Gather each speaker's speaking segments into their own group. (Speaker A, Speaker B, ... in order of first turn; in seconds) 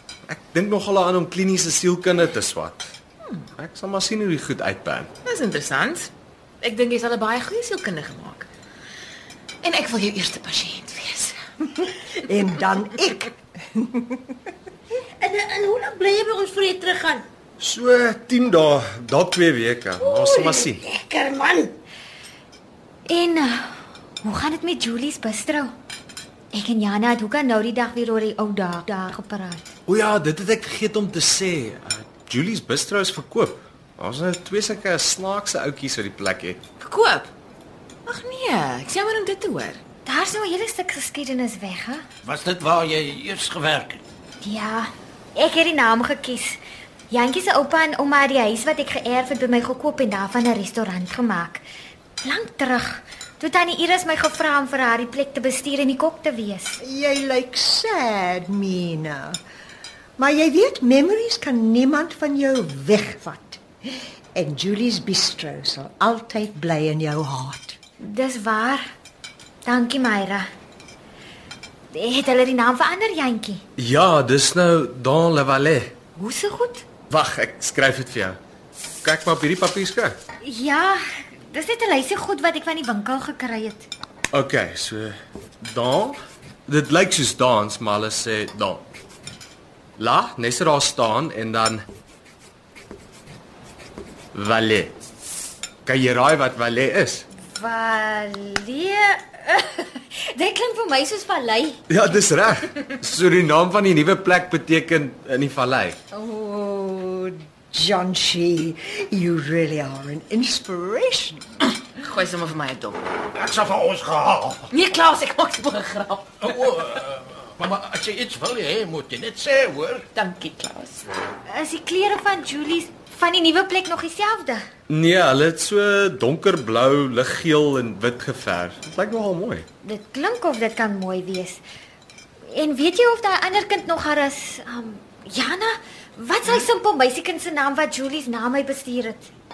Speaker A: 0.3-2.9, 3.6-5.1, 17.6-20.8, 29.9-36.6, 73.8-75.9, 77.1-78.4, 79.0-80.2, 84.3-88.8, 90.0-91.8, 94.3-95.0, 95.8-97.2, 101.9-106.0, 124.9-129.7
Speaker B: 5.2-6.1, 6.6-8.5, 9.6-11.4, 36.8-37.3, 38.0-39.8, 111.9-113.0, 114.7-116.3, 120.1-121.0
Speaker C: 12.2-14.3, 56.8-59.4, 60.2-63.6, 64.3-67.8, 107.7-111.4
Speaker D: 15.2-17.2, 20.0-21.7
Speaker E: 23.1-25.7, 26.5-29.7, 40.0-42.0, 44.4-51.6, 52.2-56.8, 68.0-68.8, 69.6-70.5, 71.9-73.6, 76.2-76.8, 80.4-83.9, 97.5-101.8, 106.1-107.2, 121.5-124.6, 129.8-131.6, 132.5-139.3
Speaker F: 42.2-44.0, 113.3-114.7, 116.4-120.0